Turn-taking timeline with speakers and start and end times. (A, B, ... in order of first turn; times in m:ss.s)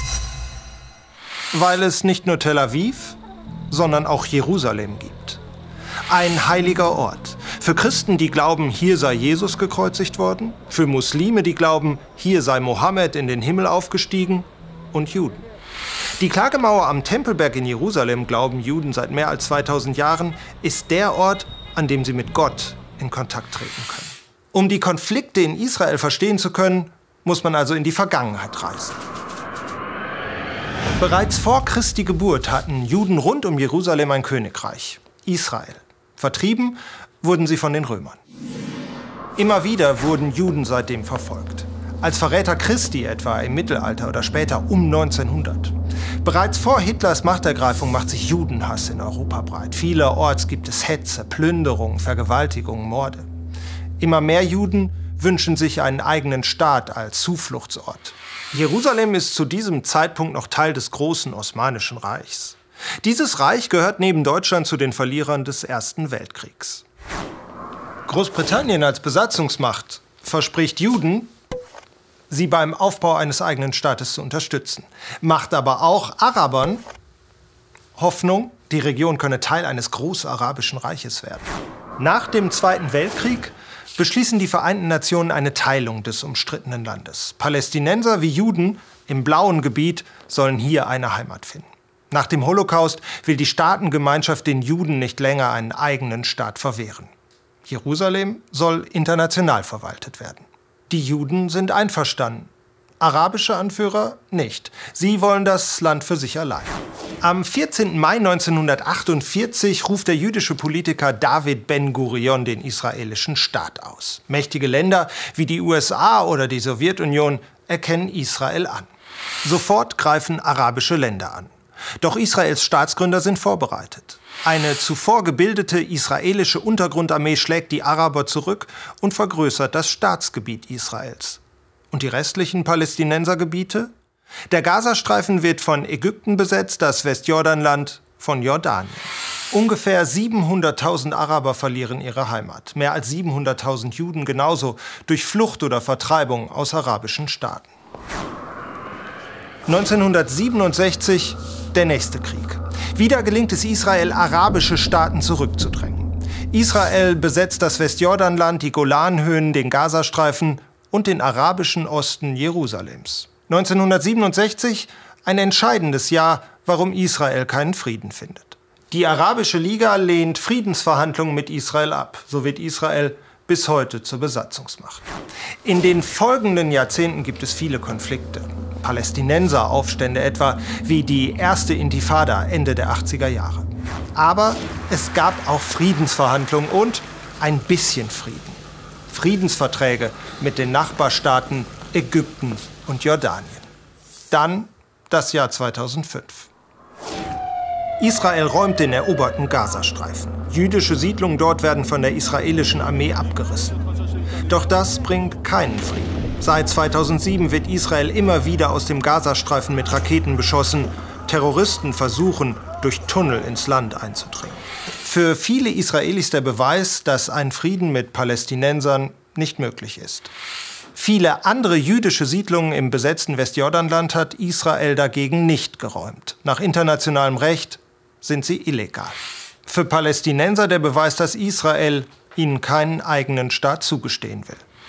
0:01.5-0:03.2 A
0:03.7-0:05.4 A
0:06.1-0:15.4 A
0:16.2-0:29.0 A
0:31.0-0:38.2 A
0:39.4-0:53.3 A
0:54.0-1:06.8 A
1:08.1-1:11.3 A
1:12.3-1:16.8 A
1:18.0-1:37.1 A
1:37.6-1:58.9 A
1:59.4-2:11.4 A
2:11.9-2:13.9 A
2:14.5-2:27.7 A
2:29.7-2:55.0 A
2:55.6-3:13.7 A
3:14.3-3:16.5 A
3:18.0-3:23.8 A
3:24.5-3:40.3 A
3:40.9-3:49.2 A
3:49.7-3:54.6 A